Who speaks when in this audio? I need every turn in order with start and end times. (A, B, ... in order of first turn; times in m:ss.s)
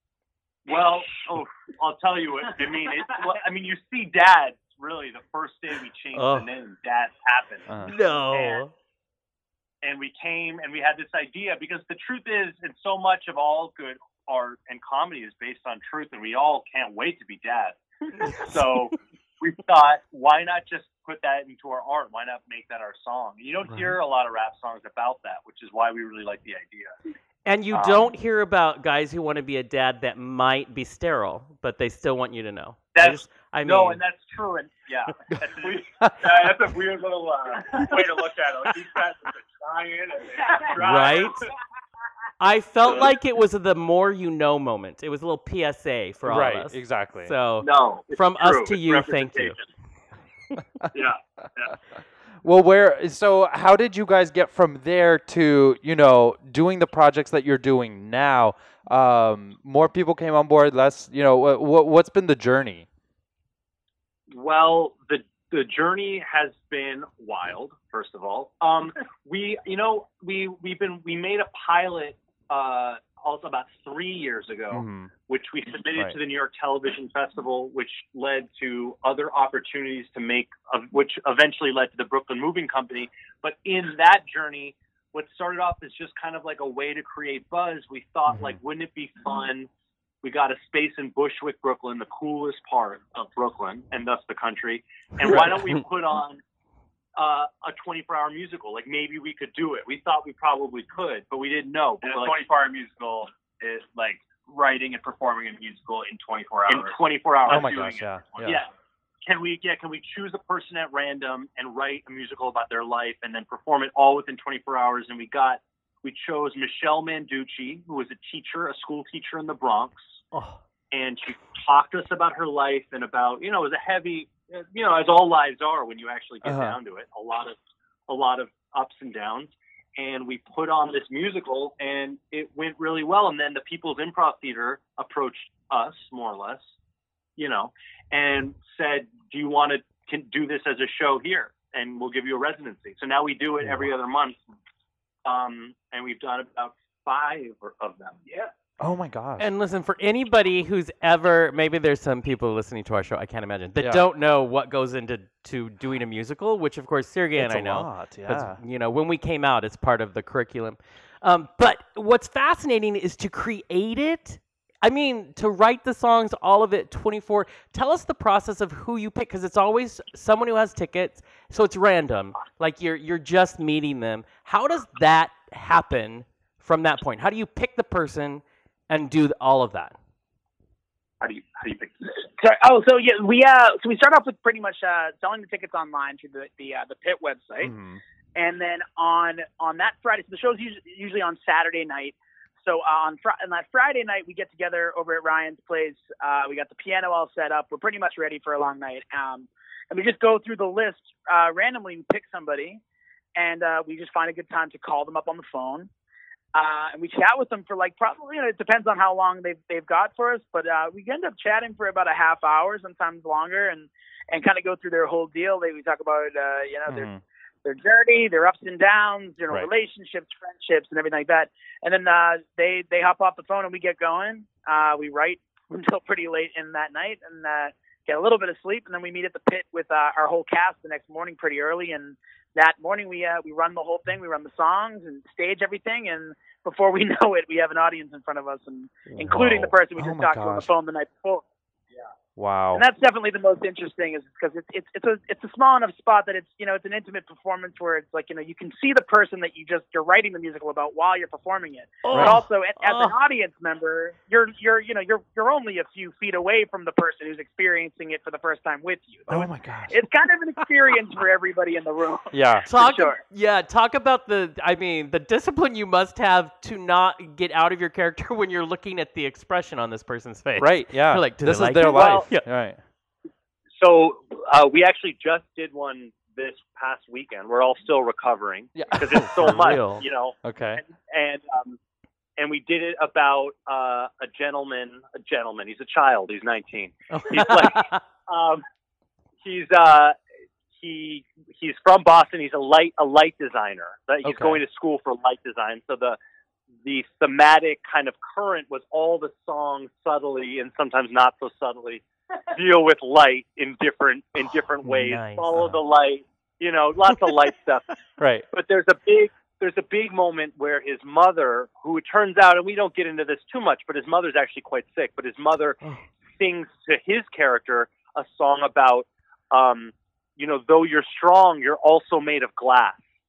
0:00.6-0:07.8 A
0:06.1-0:06.4 B
0:07.7-0:07.9 C
0:07.8-0:08.7 B
0:08.3-0:08.6 A
0:09.8-0:26.9 A
0:18.2-0:18.6 B
0:23.7-0:23.9 B
0:27.4-0:34.0 B
0:27.7-0:28.1 A
0:32.9-0:41.5 A
0:36.0-0:36.3 C
0:37.6-0:39.0 D
0:39.6-0:41.3 D
0:40.7-0:41.4 B
0:42.4-0:49.6 B
0:46.2-0:47.3 C
0:47.6-0:49.6 A
0:50.9-0:51.7 A
0:52.4-1:02.8 C
1:04.3-1:29.7 A
1:14.7-1:15.1 C
1:30.2-1:36.4 A
1:37.2-1:42.4 A
1:42.0-1:48.6 D
1:46.7-1:48.7 A
1:47.5-1:48.6 C
1:49.2-2:00.2 A
2:00.3-2:00.6 B
2:00.9-2:07.6 A
2:06.4-2:06.8 C
2:08.1-2:16.7 A
2:17.4-2:24.4 A
2:25.2-2:28.5 A
2:28.8-2:29.5 C
2:29.4-3:00.0 B
2:33.8-2:34.0 C
2:37.4-2:38.6 C
3:01.2-3:01.9 A
3:02.2-3:07.7 E
3:07.6-3:08.0 C
3:08.3-3:22.8 E
3:23.4-3:25.9 E
3:26.5-3:37.1 E
3:36.9-3:37.2 C
3:37.6-4:01.4 E
3:59.2-4:00.7 C
4:02.4-4:02.8 C
4:02.7-4:23.2 E
4:12.0-4:13.2 B
4:12.1-4:12.4 C
4:19.3-4:20.0 C
4:22.3-4:22.7 C
4:22.7-4:32.4 B
4:30.6-4:32.8 C
4:31.9-4:32.3 A
4:33.8-4:41.8 A
4:38.8-4:39.7 C
4:39.3-4:40.0 B
4:40.4-4:40.8 C
4:42.4-4:48.6 A
4:47.1-4:48.0 B
4:49.4-4:50.2 A
4:50.7-4:56.2 A
4:54.2-4:54.6 C
4:56.8-5:07.9 A
5:04.8-5:05.8 B
5:08.2-5:08.4 C
5:08.5-5:15.8 A
5:16.3-5:23.0 A